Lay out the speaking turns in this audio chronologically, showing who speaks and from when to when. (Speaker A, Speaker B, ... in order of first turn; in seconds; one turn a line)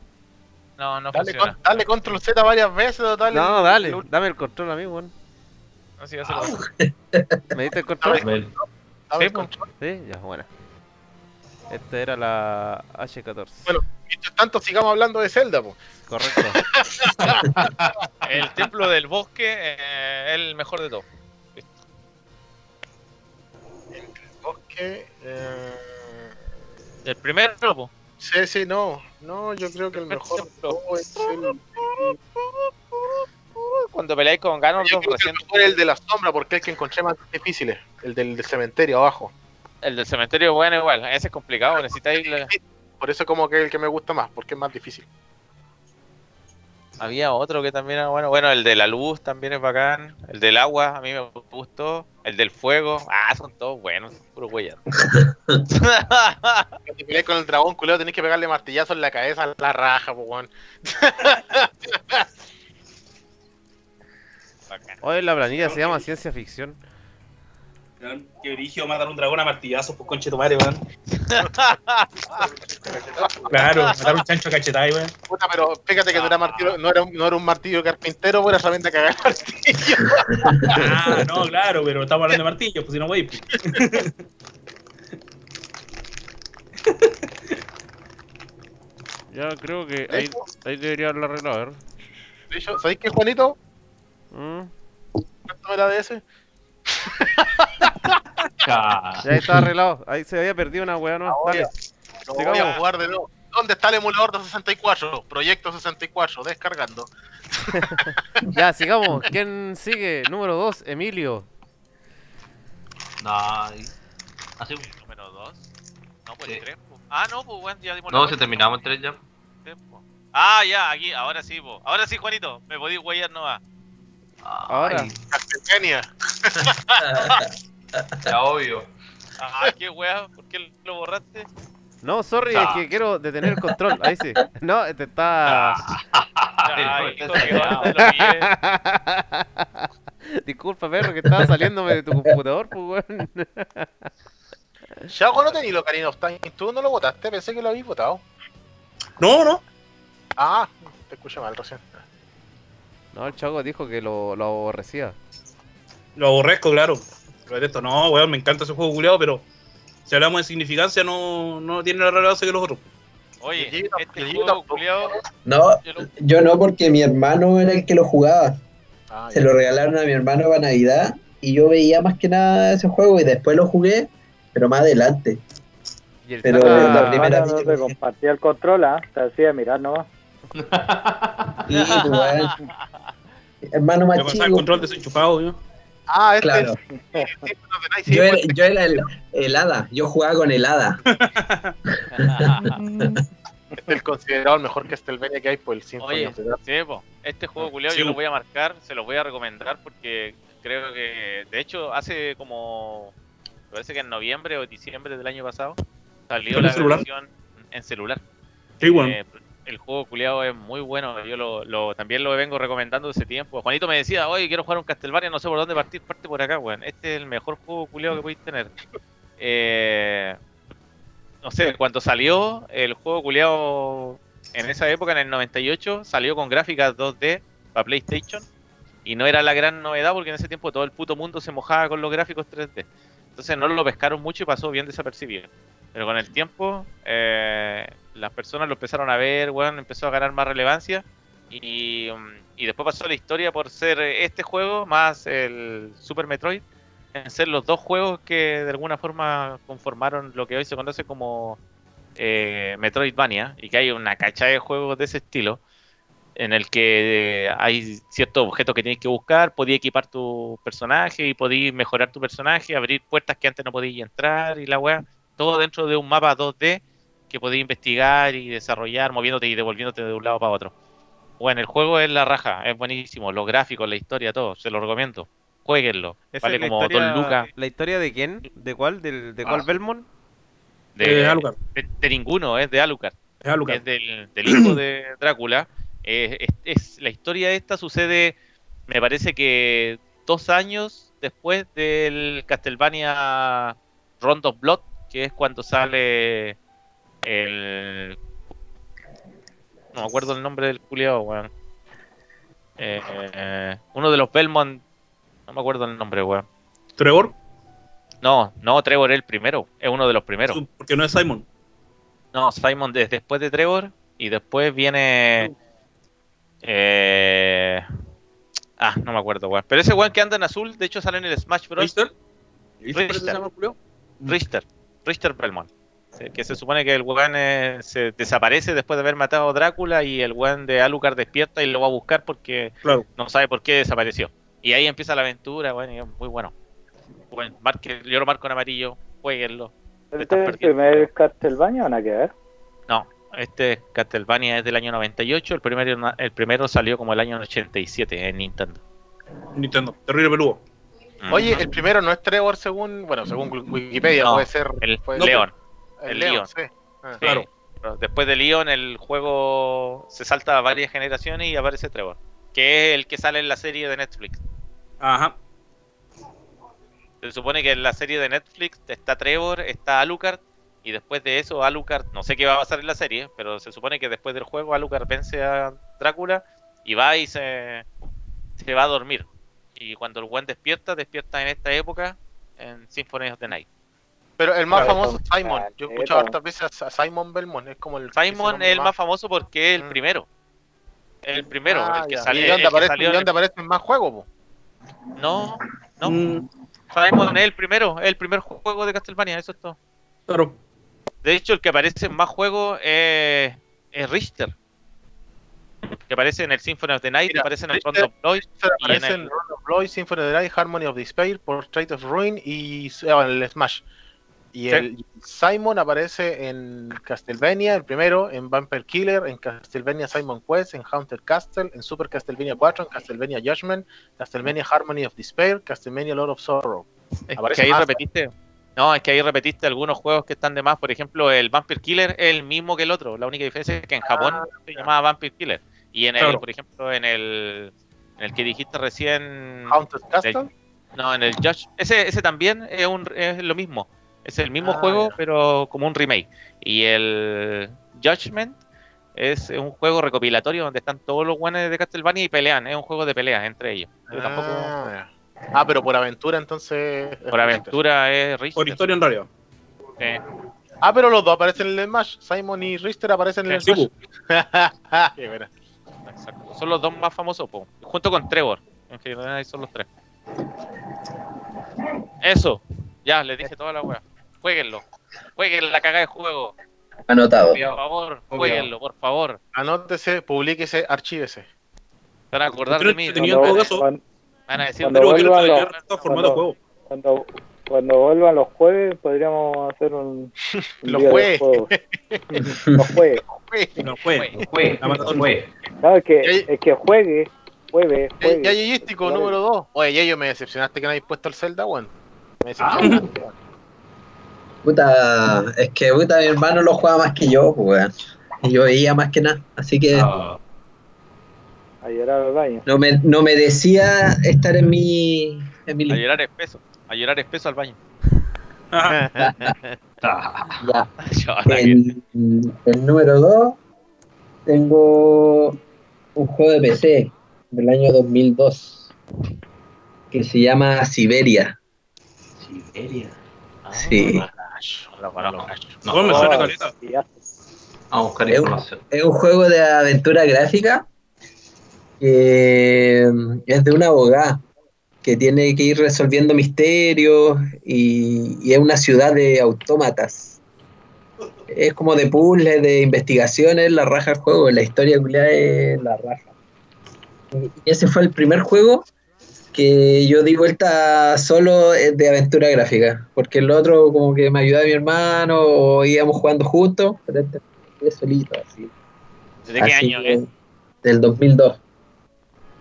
Speaker A: 0.8-1.6
Speaker B: 1.1-4.0
Speaker C: 3.3-5.1
Speaker A: 6.0-6.6
Speaker D: 6.3-7.4
Speaker C: 7.5-8.2
Speaker B: 8.0-9.7
Speaker E: 8.2-8.5
Speaker A: 9.2-9.5
Speaker C: 9.8-10.5
Speaker C: 11.7-13.7
Speaker B: 13.7-15.8
Speaker C: 16.1-16.6
Speaker B: 16.5-17.6
Speaker A: 18.2-21.1
Speaker B: 23.9-26.2
Speaker A: 27.1-27.9
Speaker B: 28.2-32.4
Speaker A: 29.9-32.1
Speaker A: 33.7-35.6
Speaker B: 34.8-39.3
Speaker A: 39.8-42.5
Speaker B: 42.5-45.1
Speaker A: 47.0-54.9
Speaker D: 55.0-55.6
Speaker A: 55.7-56.8
Speaker B: 56.9-62.3
Speaker A: 64.7-65.0
Speaker C: 65.0-66.8
Speaker F: 65.6-66.0
Speaker F: 68.0-70.8
Speaker A: 71.1-72.4
Speaker F: 73.5-75.1
Speaker A: 73.6-74.0
Speaker B: 75.3-80.8
Speaker A: 76.1-76.8
Speaker D: 80.4-81.0
Speaker F: 80.7-84.1
Speaker C: 89.3-91.8
Speaker B: 90.1-90.4
Speaker B: 92.5-93.6
Speaker C: 94.3-94.7
Speaker B: 95.5-96.2
Speaker B: 96.9-98.2
Speaker E: 98.6-99.3
Speaker C: 99.2-101.7
Speaker B: 101.3-101.7
Speaker B: 102.2-107.1
Speaker C: 102.3-102.8
Speaker C: 107.7-111.5
Speaker E: 113.2-113.9
Speaker E: 114.6-114.9
Speaker A: 114.9-115.7
Speaker A: 116.3-118.9
Speaker E: 118.1-119.2
Speaker A: 119.7-123.6
Speaker E: 124.4-125.2
Speaker C: 124.7-125.1
Speaker B: 125.3-126.7
Speaker D: 127.0-128.1
Speaker E: 128.2-128.9
Speaker A: 129.4-131.5
Speaker C: 132.0-135.8
Speaker E: 132.5-132.8
Speaker E: 135.5-137.9
Speaker A: 136.7-138.5
Speaker C: 137.3-139.8
Speaker C: 140.4-144.1
Speaker B: 145.1-148.2
Speaker F: 149.2-149.6
Speaker B: 150.4-151.9
Speaker C: 153.1-155.2
Speaker F: 156.2-159.4
Speaker F: 160.1-162.8
Speaker A: 163.4-165.2
Speaker B: 163.6-164.8
Speaker D: 165.4-168.6
Speaker A: 165.8-166.1
Speaker B: 169.1-169.5
Speaker D: 169.3-175.4
Speaker C: 176.2-177.3
Speaker D: 176.4-177.9
Speaker G: 176.6-180.1
Speaker E: 180.6-181.6
Speaker D: 181.7-182.6
Speaker A: 181.7-182.7
Speaker D: 183.6-184.8
Speaker F: 184.2-185.6
Speaker B: 186.1-188.6
Speaker D: 186.4-186.8
Speaker G: 187.1-187.5
Speaker D: 188.1-191.0
Speaker F: 191.1-191.8
Speaker D: 192.0-193.2
Speaker A: 192.2-192.8
Speaker B: 193.8-196.6
Speaker A: 196.0-203.1
Speaker F: 197.9-198.2
Speaker A: 203.7-205.8
Speaker A: 206.3-208.2
Speaker F: 206.5-207.1
Speaker F: 208.8-209.2
Speaker A: 208.8-218.7
Speaker A: 219.4-220.4
Speaker A: 221.4-228.5
Speaker A: 229.1-246.6
Speaker A: 247.2-251.6
Speaker A: 252.2-255.6
Speaker A: 256.4-270.7
Speaker A: 271.4-277.5
Speaker C: 276.3-280.1
Speaker A: 281.0-288.4
Speaker F: 281.0-281.6
Speaker F: 283.4-283.8
Speaker F: 284.5-284.8
Speaker A: 288.9-296.6
Speaker A: 297.2-298.2
Speaker A: 299.9-301.5
Speaker A: 302.8-304.8
Speaker A: 305.5-306.4
Speaker F: 307.0-307.4
Speaker A: 308.2-310.6
Speaker F: 310.5-311.4
Speaker A: 312.3-315.5
Speaker A: 316.6-317.9
Speaker A: 318.8-322.0
Speaker F: 321.8-322.1
Speaker F: 322.8-324.4
Speaker A: 322.9-323.4
Speaker A: 324.3-336.5
Speaker A: 337.3-341.1
Speaker G: 340.1-342.3
Speaker A: 342.9-348.8
Speaker F: 349.5-350.6
Speaker A: 351.2-351.7
Speaker B: 351.3-355.4
Speaker A: 354.2-355.5
Speaker F: 355.2-355.4
Speaker B: 356.0-357.2
Speaker A: 356.1-356.5
Speaker A: 357.2-364.4
Speaker F: 357.2-357.5
Speaker F: 365.0-365.4
Speaker A: 367.2-377.9
Speaker A: 378.6-383.6
Speaker B: 384.4-388.9
Speaker G: 384.8-386.3
Speaker A: 388.1-390.3
Speaker A: 391.2-393.3
Speaker B: 391.7-394.3
Speaker A: 395.2-396.2
Speaker F: 396.1-396.4
Speaker A: 396.9-399.8
Speaker F: 400.3-400.6
Speaker A: 401.2-404.5
Speaker A: 406.1-409.3
Speaker B: 407.3-413.8
Speaker B: 414.5-428.0
Speaker A: 427.3-440.4
Speaker B: 434.0-434.9
Speaker F: 436.2-436.4
Speaker B: 439.7-440.5
Speaker A: 441.0-448.6
Speaker B: 444.6-445.2
Speaker A: 449.2-454.9
Speaker B: 454.1-457.8
Speaker A: 457.3-458.9
Speaker F: 458.6-459.3
Speaker B: 460.8-465.5
Speaker F: 463.6-463.9
Speaker A: 466.1-469.9
Speaker A: 472.2-474.8
Speaker A: 475.4-476.5
Speaker D: 477.1-477.6
Speaker E: 477.5-478.7
Speaker A: 477.7-479.4
Speaker B: 479.5-481.5
Speaker A: 482.3-483.7
Speaker F: 482.7-483.9
Speaker G: 483.2-484.0
Speaker A: 484.5-485.8
Speaker G: 484.8-490.3
Speaker F: 485.0-486.6
Speaker B: 490.6-492.2
Speaker G: 490.8-491.7
Speaker D: 492.4-492.9
Speaker G: 492.8-493.2
Speaker B: 493.2-493.8
Speaker F: 493.8-495.3
Speaker A: 494.1-494.4
Speaker E: 494.3-495.5
Speaker G: 495.8-499.4
Speaker B: 496.2-496.5
Speaker B: 498.2-503.3
Speaker E: 502.6-503.1
Speaker D: 504.6-507.9
Speaker D: 508.4-510.1
Speaker E: 509.9-510.4
Speaker G: 511.8-512.6
Speaker D: 512.7-516.0
Speaker A: 515.9-517.8
Speaker F: 518.7-519.0
Speaker C: 518.9-519.8
Speaker D: 519.2-519.5
Speaker E: 520.0-520.6
Speaker D: 520.6-520.9
Speaker A: 521.0-521.8
Speaker D: 521.5-523.6
Speaker D: 524.5-525.6
Speaker D: 526.1-528.9
Speaker D: 530.1-531.6
Speaker E: 532.4-533.1
Speaker A: 533.6-534.3
Speaker D: 533.8-534.2
Speaker B: 534.0-535.9
Speaker A: 535.0-535.5
Speaker E: 535.2-536.4
Speaker F: 535.9-536.8
Speaker G: 536.0-537.1
Speaker E: 537.9-538.8
Speaker D: 538.3-540.9
Speaker D: 542.0-544.4
Speaker D: 545.0-550.4
Speaker D: 551.5-556.3
Speaker D: 557.3-558.9
Speaker D: 559.5-568.7
Speaker A: 569.5-570.2
Speaker D: 569.6-570.3
Speaker D: 570.8-571.6